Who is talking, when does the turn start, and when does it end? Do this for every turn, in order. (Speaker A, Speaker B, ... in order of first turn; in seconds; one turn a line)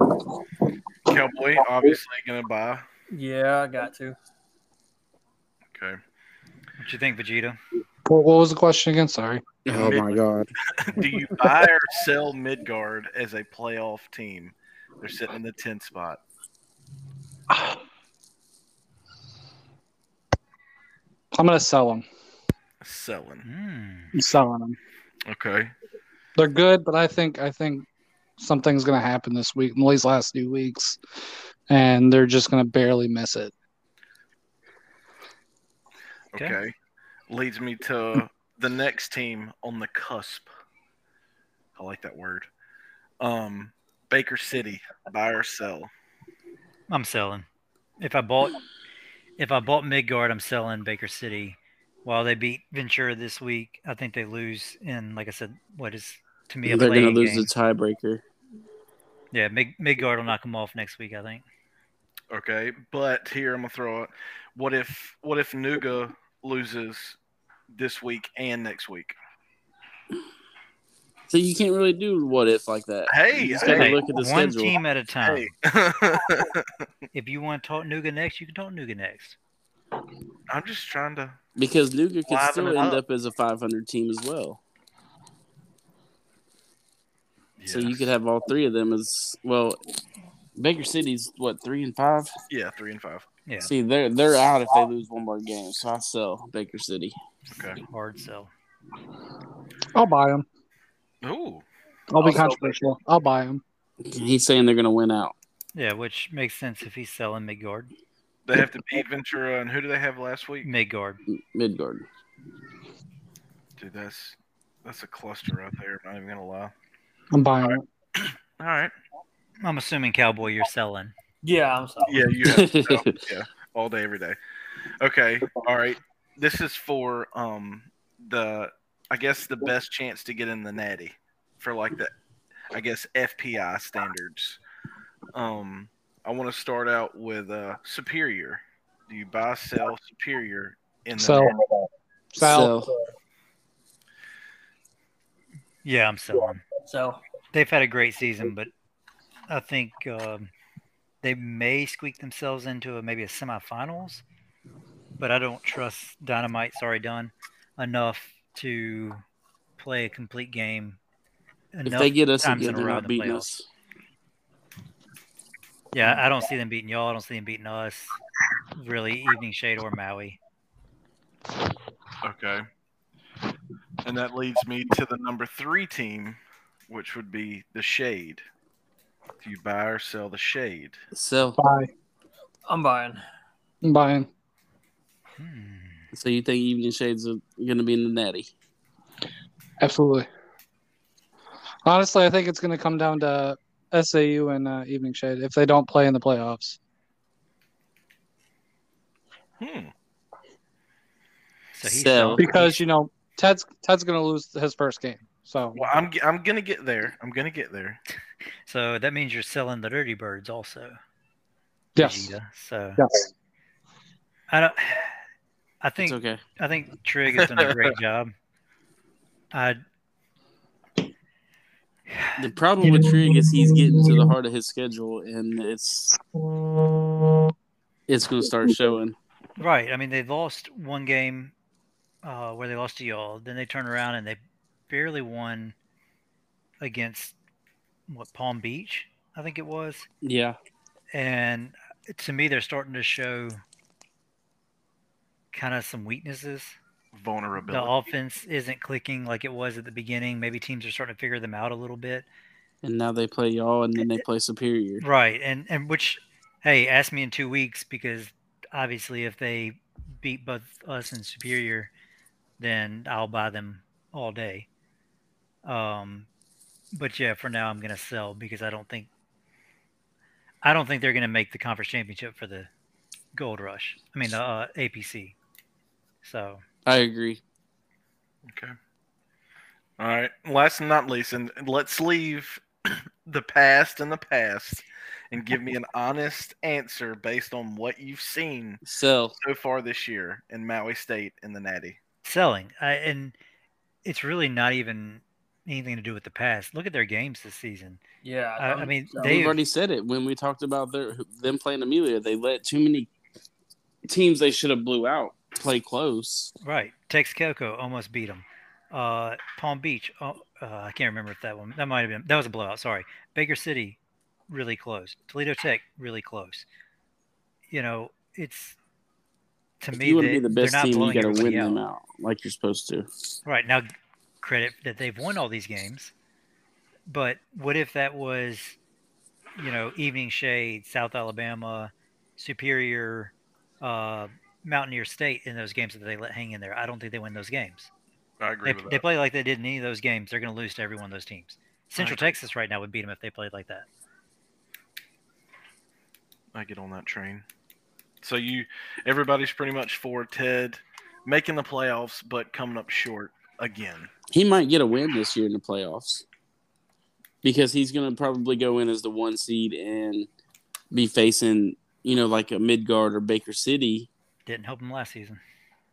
Speaker A: 1.1-2.9
Speaker B: 3.1-4.2
Speaker A: 5.7-6.0
Speaker C: 6.8-7.6
Speaker D: 8.1-9.4
Speaker E: 9.7-10.5
Speaker A: 9.7-16.2
Speaker D: 17.5-17.8
Speaker D: 21.3-22.1
Speaker A: 22.8-23.4
Speaker C: 23.4-24.1
Speaker D: 24.1-24.8
Speaker A: 25.3-25.7
Speaker D: 26.4-27.9
Speaker D: 28.4-31.0
Speaker D: 31.7-33.5
Speaker A: 36.3-36.7
Speaker A: 37.3-40.5
Speaker A: 41.8-42.5
Speaker A: 43.2-45.9
Speaker C: 46.9-47.5
Speaker C: 48.0-48.6
Speaker C: 49.4-57.5
Speaker E: 56.7-58.2
Speaker C: 59.3-61.4
Speaker A: 62.3-67.2
Speaker A: 67.7-69.2
Speaker E: 71.3-74.8
Speaker A: 73.1-74.0
Speaker C: 73.7-75.5
Speaker A: 75.2-76.8
Speaker C: 77.1-79.4
Speaker A: 80.5-81.4
Speaker E: 81.6-84.6
Speaker A: 82.3-83.0
Speaker A: 87.6-88.1
Speaker E: 87.7-89.8
Speaker E: 90.6-92.3
Speaker A: 92.5-93.3
Speaker C: 93.5-93.7
Speaker E: 93.6-97.2
Speaker A: 97.5-97.8
Speaker C: 97.8-98.5
Speaker D: 99.9-100.5
Speaker A: 101.2-101.7
Speaker D: 102.1-103.6
Speaker A: 102.2-102.7
Speaker E: 104.0-105.3
Speaker C: 105.8-107.9
Speaker A: 108.5-110.7
Speaker C: 110.6-111.2
Speaker E: 111.3-112.0
Speaker A: 113.8-116.7
Speaker D: 117.3-117.8
Speaker A: 117.7-118.9
Speaker C: 119.6-121.1
Speaker B: 121.4-122.2
Speaker A: 122.0-124.4
Speaker E: 122.5-123.2
Speaker A: 125.0-132.1
Speaker A: 132.7-134.6
Speaker A: 135.3-141.6
Speaker D: 141.2-141.5
Speaker D: 142.3-142.8
Speaker E: 142.4-142.9
Speaker C: 145.8-146.6
Speaker B: 146.9-147.2
Speaker C: 147.5-148.7
Speaker C: 149.5-150.5
Speaker C: 151.2-154.2
Speaker C: 155.2-159.2
Speaker C: 159.8-161.0
Speaker C: 161.7-163.5
Speaker E: 161.9-163.7
Speaker C: 165.9-168.2
Speaker C: 168.8-170.4
Speaker A: 172.2-172.7
Speaker A: 174.0-178.4
Speaker A: 179.4-181.0
Speaker E: 181.1-181.6
Speaker D: 181.6-181.9
Speaker B: 182.7-183.2
Speaker D: 183.8-184.3
Speaker C: 185.4-186.1
Speaker E: 186.1-188.5
Speaker D: 189.8-190.3
Speaker D: 191.8-196.8
Speaker A: 199.6-199.9
Speaker C: 201.7-202.8
Speaker E: 201.8-202.4
Speaker D: 202.4-205.9
Speaker A: 205.8-208.0
Speaker C: 208.7-211.0
Speaker D: 212.0-212.3
Speaker C: 212.0-213.0
Speaker C: 214.5-215.2
Speaker C: 215.8-218.3
Speaker E: 216.0-216.4
Speaker C: 219.5-219.8
Speaker C: 222.1-222.4
Speaker E: 222.4-226.2
Speaker D: 223.1-224.1
Speaker E: 228.1-229.2
Speaker C: 229.6-231.5
Speaker C: 232.2-235.8
Speaker C: 236.8-237.3
Speaker C: 238.1-240.1
Speaker E: 240.2-240.6
Speaker C: 241.1-243.6
Speaker C: 245.5-246.8
Speaker A: 247.1-247.9
Speaker C: 247.7-252.3
Speaker E: 252.8-255.1
Speaker C: 255.0-261.9
Speaker C: 262.6-264.7
Speaker C: 265.6-266.3
Speaker C: 266.9-269.1
Speaker C: 270.6-272.7
Speaker C: 273.4-275.4
Speaker C: 276.2-276.6
Speaker E: 276.9-277.4
Speaker A: 278.5-278.8
Speaker A: 280.0-288.8
Speaker E: 288.8-289.4
Speaker A: 289.4-292.0
Speaker C: 292.2-293.4
Speaker C: 294.1-298.0
Speaker B: 298.2-298.9
Speaker C: 298.6-299.6
Speaker E: 299.1-303.1
Speaker E: 304.1-306.5
Speaker C: 306.6-314.0
Speaker C: 314.5-316.7
Speaker C: 317.7-318.8
Speaker C: 319.8-321.8
Speaker E: 319.9-323.1
Speaker C: 323.4-323.9
Speaker C: 324.4-326.1
Speaker C: 327.1-328.8
Speaker C: 329.6-337.9
Speaker A: 338.4-339.0
Speaker C: 338.6-343.9
Speaker A: 342.0-342.3
Speaker A: 346.5-347.4
Speaker A: 348.2-354.1
Speaker E: 354.3-356.2
Speaker E: 357.4-360.3
Speaker E: 360.9-364.1
Speaker C: 364.5-365.4